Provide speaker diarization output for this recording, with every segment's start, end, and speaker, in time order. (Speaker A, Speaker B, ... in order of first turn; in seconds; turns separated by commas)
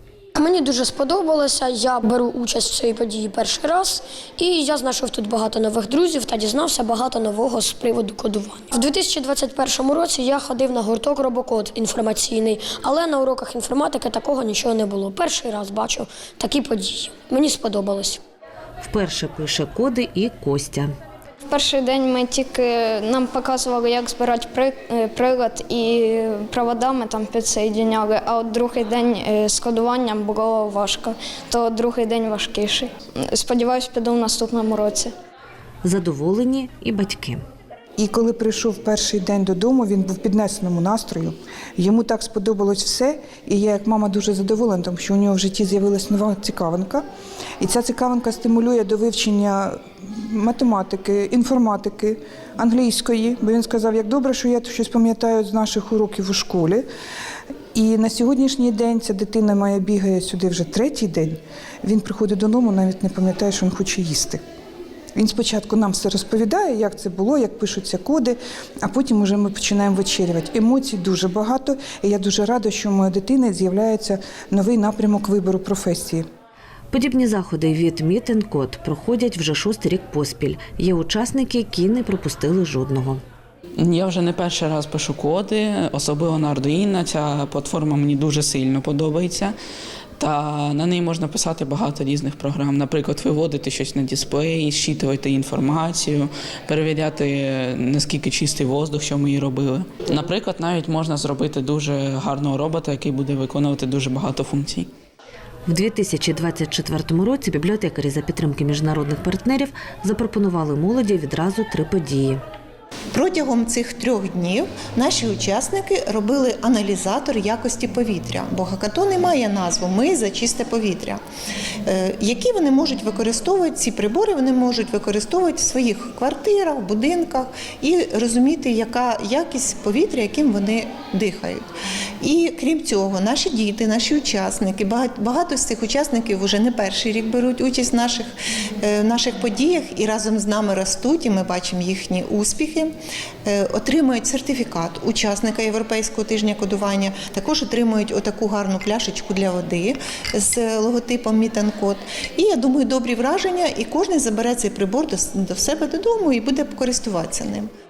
Speaker A: 0.3-18.2, Speaker B: 18.8-20.9, Speaker C: 21.5-35.1, Speaker B: 35.8-37.4, Speaker D: 38.0-47.0, Speaker D: 47.6-56.8, Speaker D: 57.7-64.4, Speaker D: 65.1-76.2, Speaker B: 76.9-83.2, Speaker E: 83.8-89.5, Speaker E: 90.2-104.9, Speaker B: 105.7-112.4, Speaker F: 113.1-121.2, Speaker F: 121.8-131.6, Speaker F: 132.2-138.3, Speaker F: 138.8-142.9, Speaker F: 143.4-157.7